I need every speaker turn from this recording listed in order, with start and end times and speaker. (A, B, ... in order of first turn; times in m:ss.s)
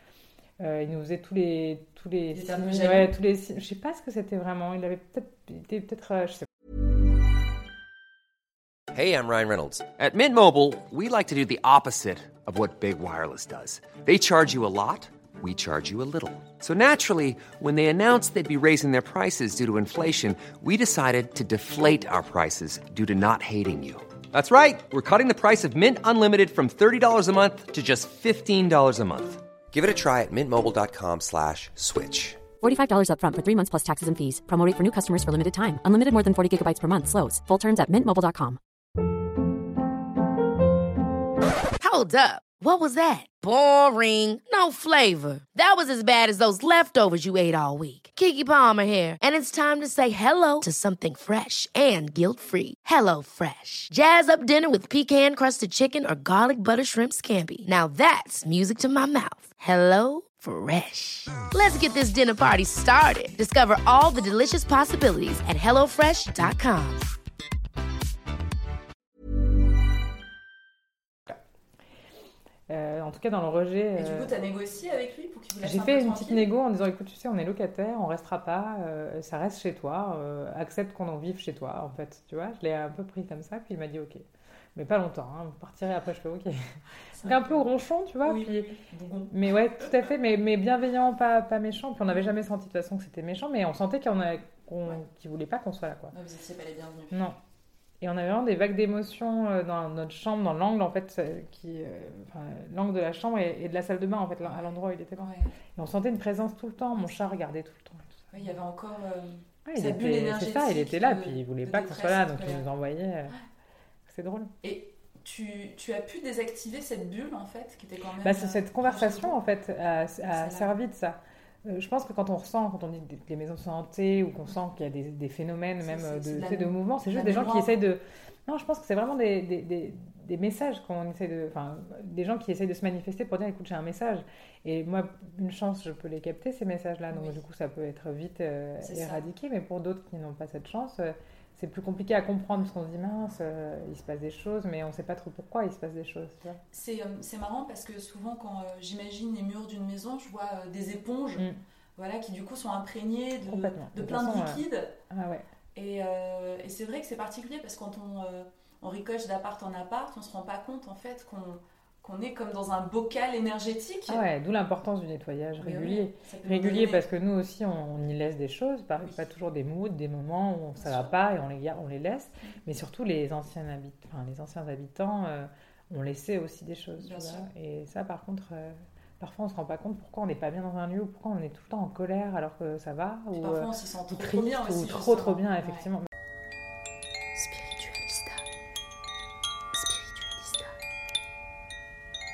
0:00.6-0:06.4 A
0:02.3-0:03.1 B
0:08.9-0:32.5 C
0:32.6-0:38.6 D
0:41.8-1:07.0 E
1:12.7-1:14.3 A
1:14.0-1:16.5 B
1:15.6-1:26.6 A
1:27.1-1:27.7 B
1:27.2-1:28.7 A
1:28.2-1:29.4 B
1:29.3-1:36.1 A
1:36.1-1:37.2 B
1:38.0-1:48.5 A
1:45.2-1:45.5 B
1:48.3-1:52.6 B
1:49.6-1:53.3 A
1:54.1-1:54.5 A
1:54.6-1:59.4 B
1:58.2-2:26.6 A
2:00.3-2:00.7 B
2:05.8-2:07.8 B
2:17.1-2:17.4 B
2:18.8-2:19.3 B
2:26.7-2:34.9 B
2:33.4-2:35.4 A
2:35.7-2:44.2 B
2:44.1-3:06.1 A
2:45.6-2:47.0 B
2:50.8-2:51.1 B
2:57.0-2:57.4 B
3:03.3-3:05.8 B
3:07.3-3:08.4 B
3:09.7-3:10.7 B